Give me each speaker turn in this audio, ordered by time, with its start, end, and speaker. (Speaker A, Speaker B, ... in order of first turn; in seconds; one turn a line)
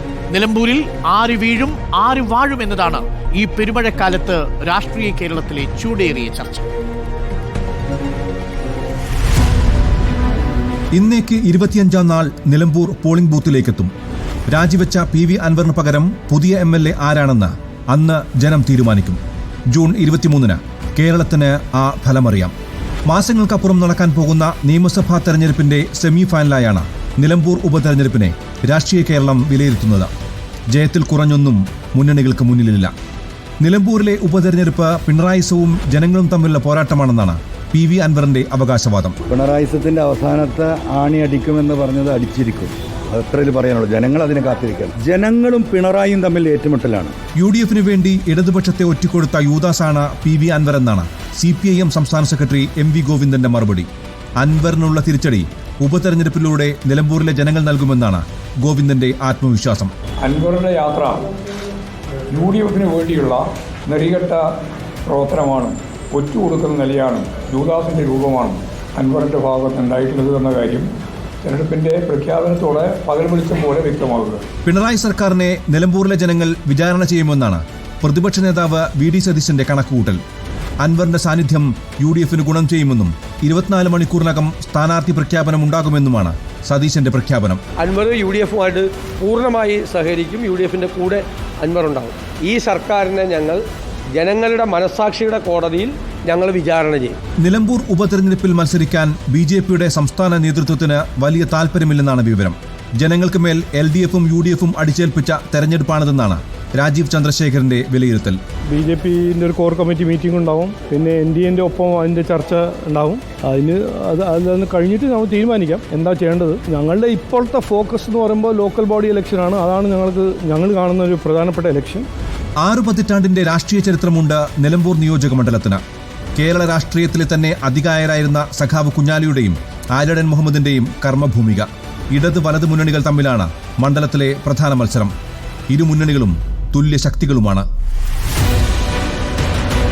Speaker A: 0.3-6.6
Speaker B: 10.9-13.9
Speaker B: 14.5-19.2
Speaker B: 19.7-22.5
Speaker B: 23.1-30.1
Speaker B: 30.7-32.9
Speaker B: 33.6-39.2
Speaker C: 39.3-47.1
Speaker B: 47.4-59.9
Speaker D: 62.4-63.4
Speaker D: 65.1-67.8
Speaker D: 69.6-70.9
Speaker D: 71.5-72.3
Speaker D: 73.0-74.4
Speaker B: 74.7-80.2
Speaker B: 80.8-88.8
Speaker E: 87.8-93.6
Speaker E: 94.2-97.1
Speaker B: 97.4-108.4
Speaker F: 108.7-122.1
Speaker B: 122.6-125.8
Speaker B: 126.4-135.1
Speaker B: 135.7-137.7